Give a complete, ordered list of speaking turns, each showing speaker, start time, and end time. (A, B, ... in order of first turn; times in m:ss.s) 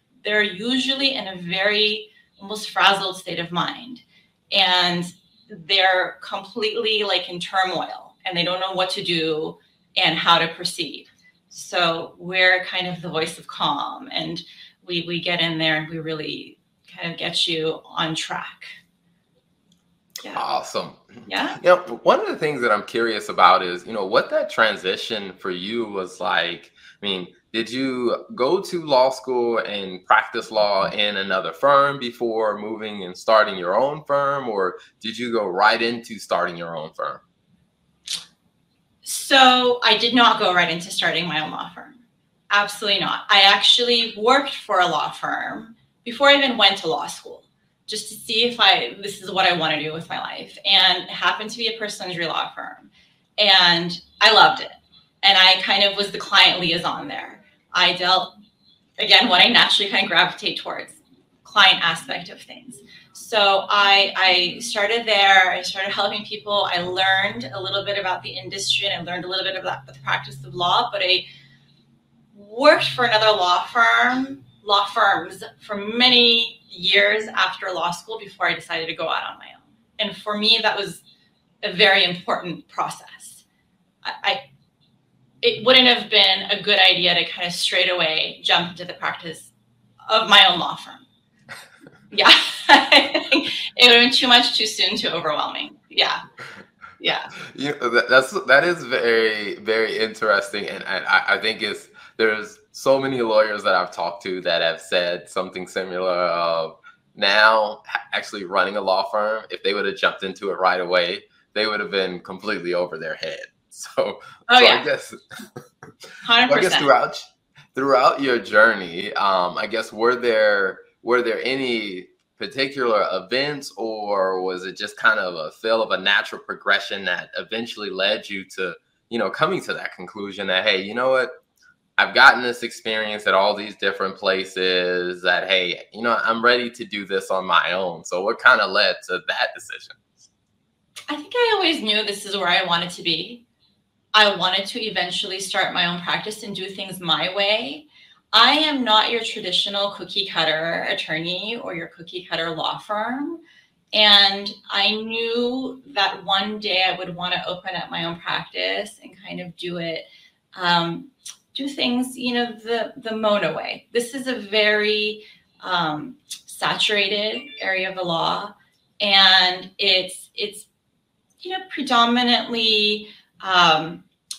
0:00.2-0:18.7 A
0:20.3-0:37.2 B
0:21.3-0:21.6 A
0:39.0-0:58.3 A
0:59.0-1:11.2 A
1:12.3-1:21.0 A
1:21.6-1:23.4 A
1:24.0-1:24.4 A
1:25.4-1:29.5 A
1:30.1-1:31.0 A
1:32.1-1:36.2 A
1:37.0-1:37.3 A
1:37.4-1:55.2 B
1:54.5-1:54.8 A
1:56.2-1:56.9 A
1:56.4-1:57.2 B
1:57.7-2:11.3 B
2:12.0-2:20.0 B
2:21.1-2:23.4 A
2:24.1-2:33.4 A
2:33.9-2:50.7 A
2:51.4-2:54.0 A